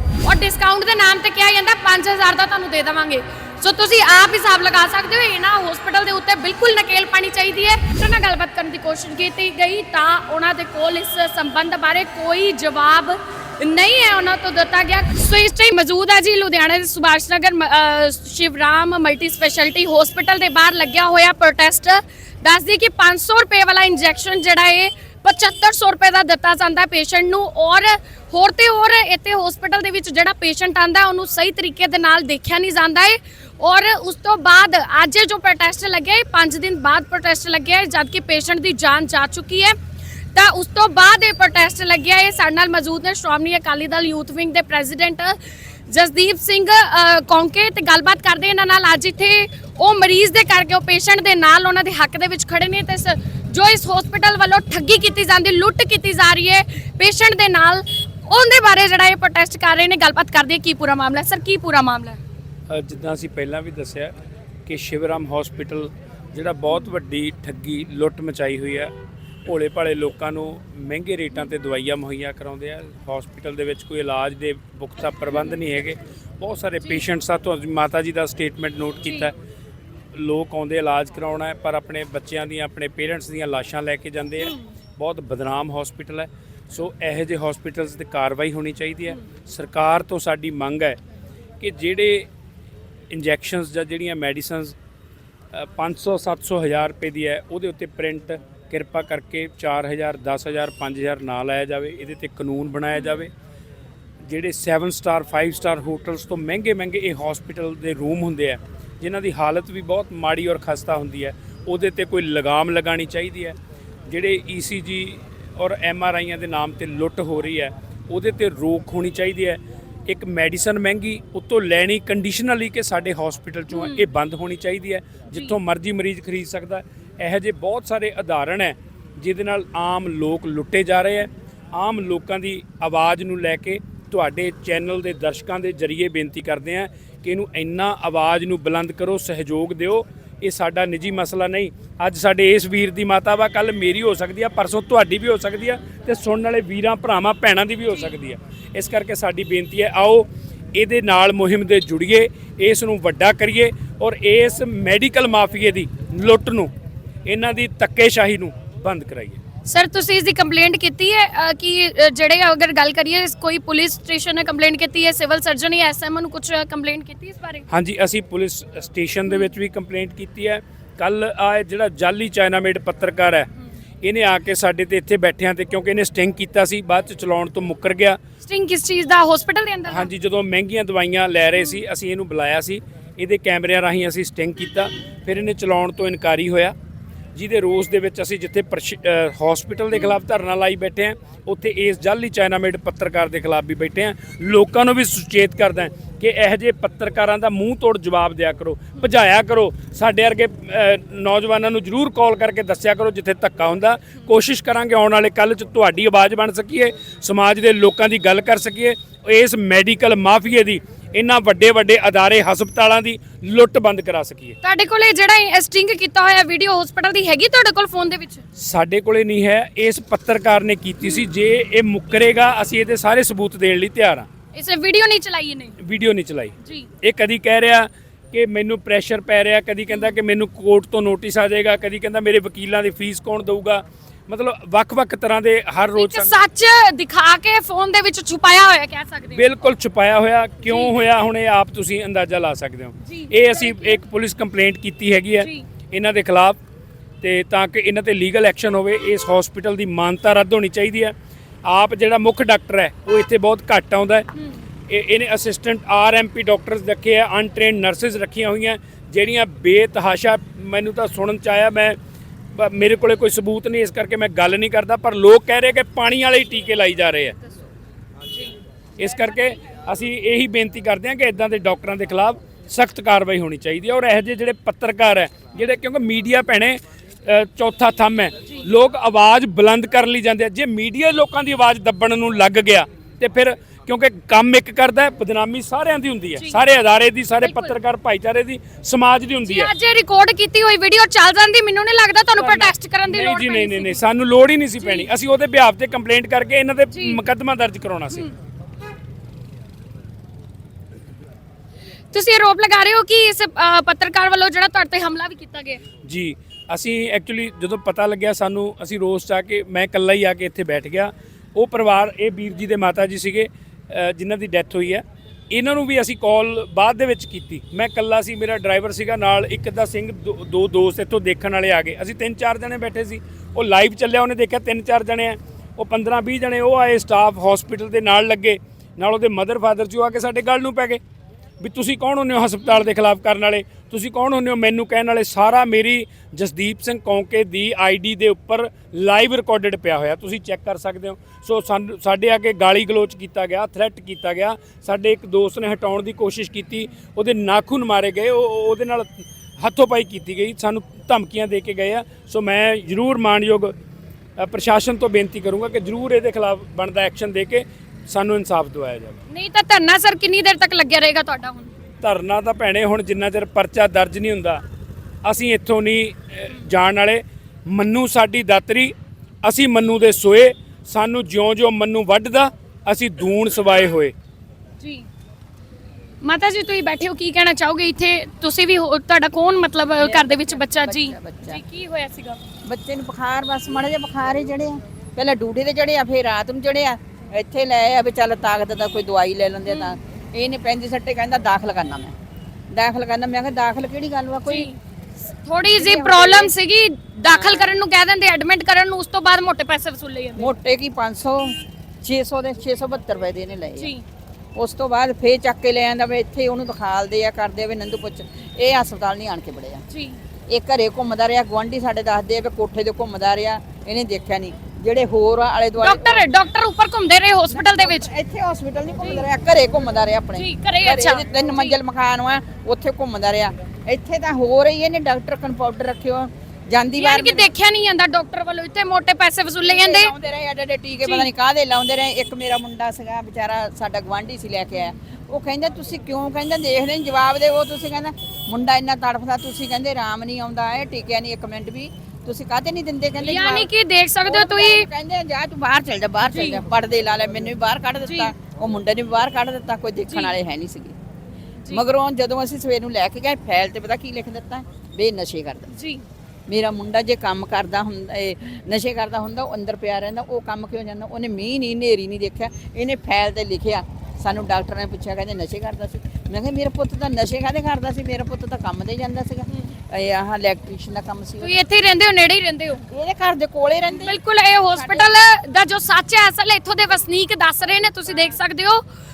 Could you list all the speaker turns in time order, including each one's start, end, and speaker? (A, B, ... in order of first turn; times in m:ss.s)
0:00.2-0:39.8 A
0:40.3-1:02.2 A
1:02.7-1:04.1 B
1:04.7-1:08.9 B
1:09.4-1:19.3 B
1:19.0-1:19.3 A
1:20.2-1:31.0 B
1:24.4-1:24.6 A
1:31.6-1:32.3 B
1:33.1-1:34.8 B
1:35.5-1:43.3 B
1:44.3-1:53.6 B
1:54.1-2:36.7 B
2:03.7-2:04.1 A
2:37.3-2:39.4 B
2:39.7-2:47.6 A
2:47.7-2:53.5 B
2:54.0-2:58.2 B
2:58.4-3:00.1 A
2:59.9-3:06.7 B
3:07.4-3:34.6 B
3:34.6-3:38.4 A
3:38.6-3:44.3 B
3:44.5-3:45.8 A
3:45.8-3:56.4 B
3:46.6-3:46.9 A
3:49.9-3:50.2 A
3:56.0-3:59.5 A
3:59.4-4:06.6 B
4:00.7-4:01.0 A
4:03.0-4:04.0 A
4:05.4-4:05.7 A
4:07.2-4:11.1 B
4:11.6-4:14.3 B
4:14.4-4:14.6 A
4:14.9-4:22.0 B
4:22.6-4:27.4 B
4:29.0-4:49.7 B
4:47.4-4:47.8 A
4:49.4-4:54.0 A
4:52.4-4:58.3 B
4:54.8-4:55.1 A
4:56.9-4:57.2 A
5:02.1-5:05.8 A
5:06.0-5:31.0 B
5:31.6-5:53.7 B
5:54.4-5:59.2 B
5:59.3-6:01.7 A
6:02.0-6:04.6 B
6:05.2-6:14.1 B
6:14.8-6:15.1 A
6:16.2-6:22.4 A
6:20.0-6:21.6 C
6:22.6-6:32.1 C
6:29.7-6:30.0 A
6:32.7-6:34.7 C
6:34.5-6:40.5 A
6:35.8-6:36.5 C
6:37.3-6:37.8 C
6:40.4-6:43.9 C
6:43.8-6:44.0 A
6:44.6-6:49.8 C
6:49.9-6:50.2 A
6:50.5-6:56.1 C
6:55.8-6:58.1 A
6:57.5-7:07.5 C
7:00.4-7:01.8 A
7:07.0-7:10.1 A
7:09.6-7:23.7 C
7:11.0-7:11.3 A
7:23.2-7:24.9 A
7:24.3-7:31.0 C
7:26.2-7:26.6 A
7:28.0-7:28.3 A
7:30.1-7:30.4 A
7:31.7-7:35.7 C
7:35.7-7:36.0 A
7:36.5-7:51.6 C
7:51.4-7:52.9 A
7:52.9-7:54.2 C
7:53.9-7:58.8 A
7:54.7-7:55.2 C